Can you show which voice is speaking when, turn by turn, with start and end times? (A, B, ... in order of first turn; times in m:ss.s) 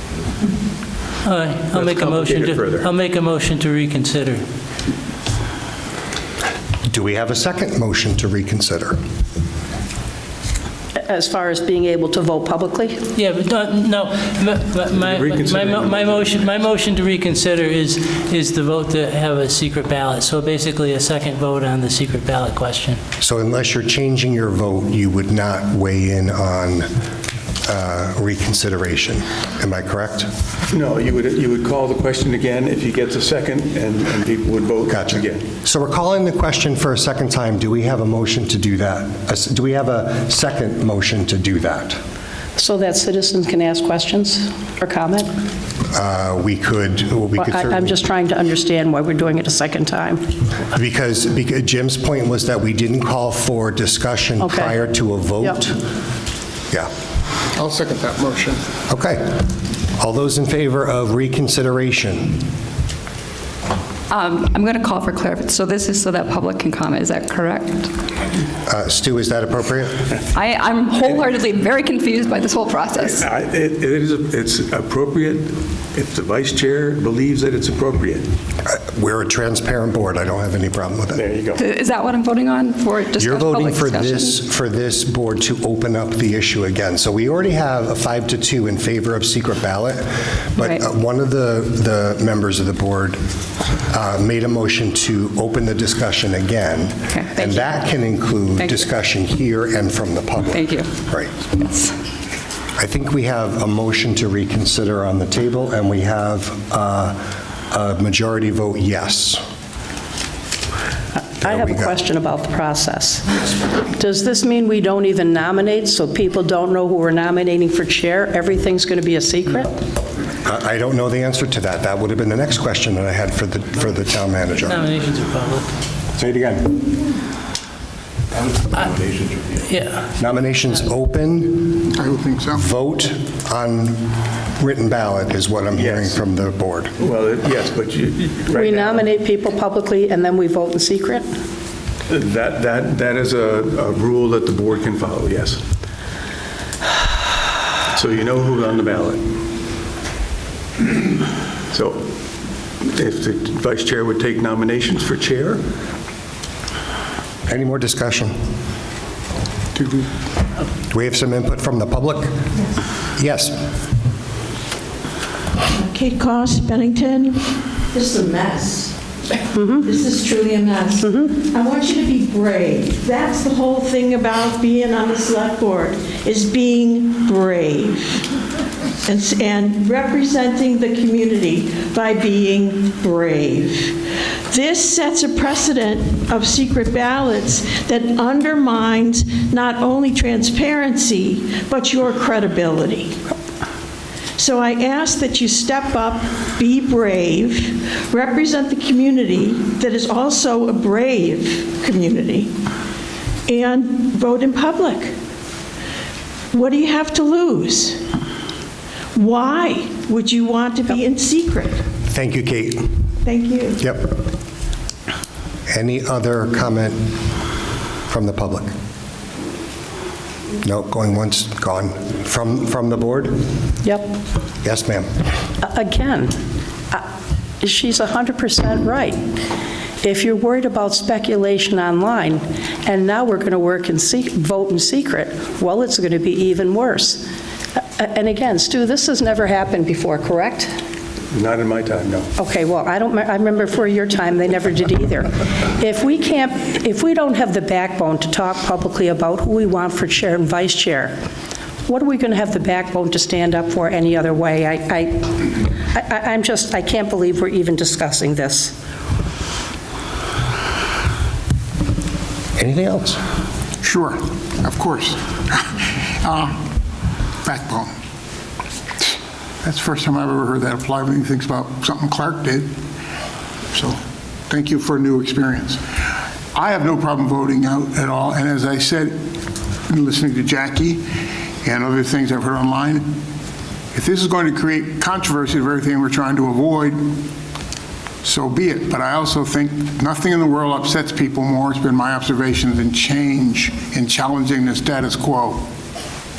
0:01.2-0:04.4 A
0:01.7-0:02.9 B
0:06.9-0:09.0 C
0:11.0-0:13.0 D
0:13.2-0:23.0 A
0:15.0-0:16.4 B
0:23.2-0:26.9 C
0:27.6-0:30.3 C
0:30.7-0:35.4 B
0:34.9-0:42.0 C
0:42.6-0:45.3 D
0:45.9-0:48.0 C
0:47.4-0:50.2 D
0:50.7-0:55.8 C
0:54.4-0:54.7 D
0:57.6-0:58.6 E
0:58.9-1:02.4 C
1:04.1-1:07.9 F
1:08.7-1:10.0 C
1:10.3-1:13.2 F
1:13.0-1:18.3 B
1:18.7-1:21.2 C
1:21.2-1:21.6 B
1:21.6-1:24.4 F
1:23.2-1:33.2 C
1:33.9-1:41.3 C
1:37.1-1:37.8 F
1:38.6-1:38.9 F
1:40.5-1:40.9 F
1:42.8-1:49.4 C
1:51.2-1:59.7 D
1:51.4-1:52.0 C
2:00.4-2:04.8 C
2:04.6-2:05.7 A
2:06.2-2:06.8 C
2:09.7-2:10.1 A
2:10.2-2:11.9 C
2:11.9-2:12.6 E
2:12.5-2:17.0 C
2:15.7-2:16.2 B
2:17.0-2:19.1 B
2:18.5-2:21.2 D
2:22.1-2:25.6 B
2:27.9-2:29.2 B
2:31.7-2:32.1 B
2:32.8-2:35.6 B
2:37.5-2:38.4 C
2:40.9-2:42.5 C
2:43.0-2:43.6 C
2:45.7-2:48.9 G
2:49.5-2:49.9 D
2:49.8-2:58.2 G
2:51.0-2:51.3 D
2:59.0-3:04.0 G
3:04.5-3:13.2 G
3:14.4-3:22.5 G
3:23.5-3:25.1 G
3:26.5-3:28.0 G
3:29.2-3:31.8 G
3:32.1-3:33.1 C
3:33.2-3:33.8 G
3:33.8-3:34.1 C
3:35.7-3:37.1 C
3:38.1-3:38.7 C
3:40.6-3:43.4 C
3:43.8-3:44.1 D
3:44.6-3:45.1 C
3:45.6-3:46.4 D
3:47.6-3:49.3 D
3:50.0-3:57.2 D
3:57.8-4:00.7 D
4:01.3-4:02.3 B
4:02.4-4:11.2 D
4:11.9-4:18.8 D
4:22.6-4:23.2 C
4:23.8-4:26.6 E
4:27.4-4:27.9 E
4:29.6-4:32.6 E
4:34.5-4:35.8 E
4:36.5-4:39.2 E
4:39.9-4:41.0 E
4:41.6-4:43.0 E
4:43.9-4:47.0 E
4:48.2-4:55.6 E